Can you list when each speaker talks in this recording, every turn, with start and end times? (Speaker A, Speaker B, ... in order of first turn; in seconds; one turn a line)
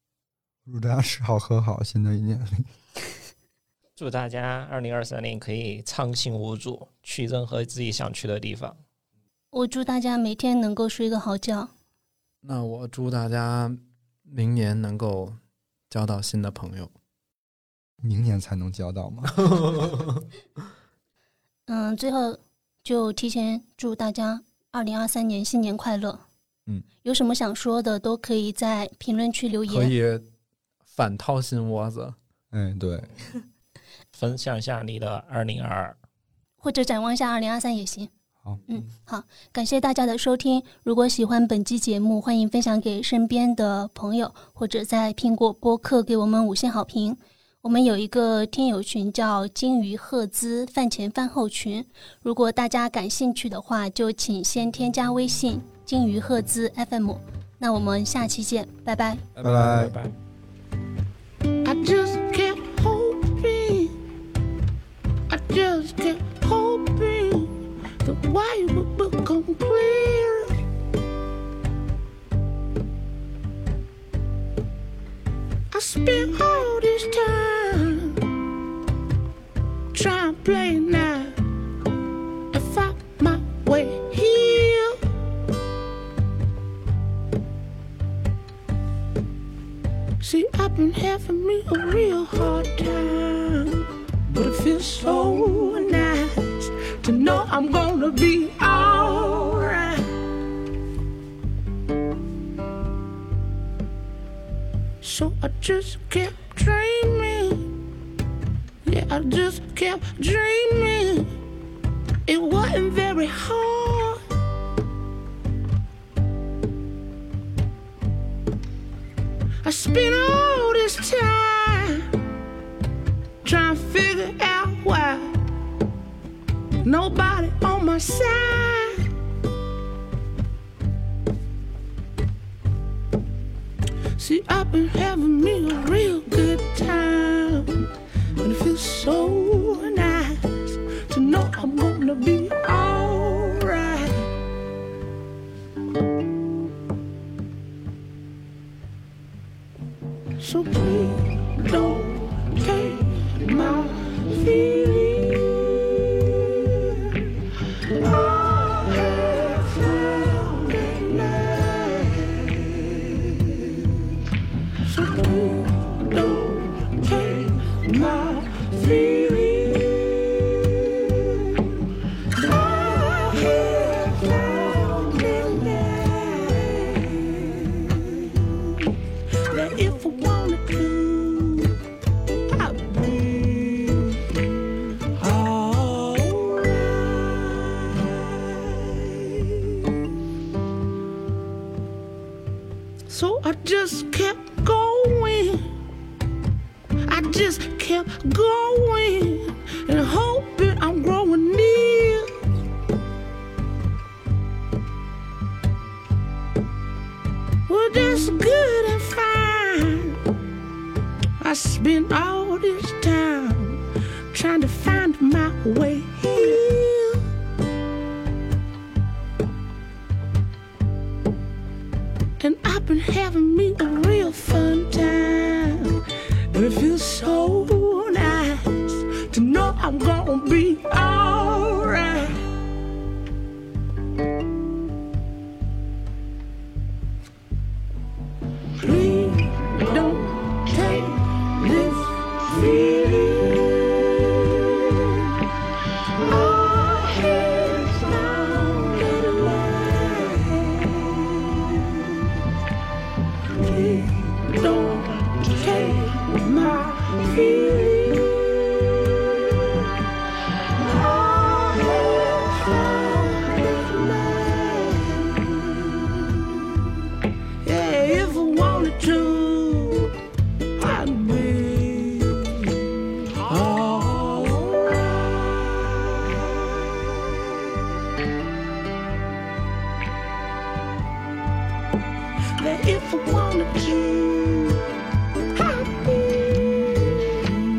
Speaker A: 0.6-2.7
Speaker B: 4.0-8.8
Speaker C: 9.5-11.7
Speaker D: 12.4-15.3
Speaker D: 15.9-16.9
Speaker A: 18.0-19.9
Speaker D: 19.4-20.2
Speaker C: 21.7-26.2
Speaker C: 27.0-29.9
Speaker D: 29.7-30.2
Speaker D: 30.9-32.1
Speaker A: 32.5-33.1
Speaker B: 34.1-36.0
Speaker C: 36.6-38.1
Speaker A: 38.4-38.9
Speaker C: 38.7-59.2
Speaker D: 59.3-60.1
Speaker A: 59.4-60.0
Speaker E: 61.6-64.0
Speaker E: 65.3-70.6
Speaker E: 75.7-78.2
Speaker E: 79.9-81.4
Speaker E: 82.5-85.0
Speaker E: 90.2-100.1
Speaker E: 105.0-107.7
Speaker E: 108.8-111.3
Speaker E: 112.2-114.2
Speaker E: 119.6-122.1
Speaker E: 123.4-125.3
Speaker E: 126.8-129.0
Speaker E: 134.2-137.7
Speaker E: 138.4-144.2
Speaker E: 150.4-163.9
Speaker E: 164.8-181.8
Speaker E: 182.5-184.4
Speaker E: 185.1-190.0
Speaker E: 193.1-195.7
Speaker E: 197.1-202.3
Speaker E: 207.7-210.2
Speaker E: 211.4-217.3
Speaker E: 222.4-226.0
Speaker E: 226.5-232.4
Speaker E: 238.8-245.3
Speaker E: 246.1-252.4
Speaker E: 253.5-259.7
Speaker E: 260.8-266.9
Speaker E: 267.6-270.1
Speaker E: 270.8-277.5
Speaker E: 282.6-284.9
Speaker E: 285.5-287.5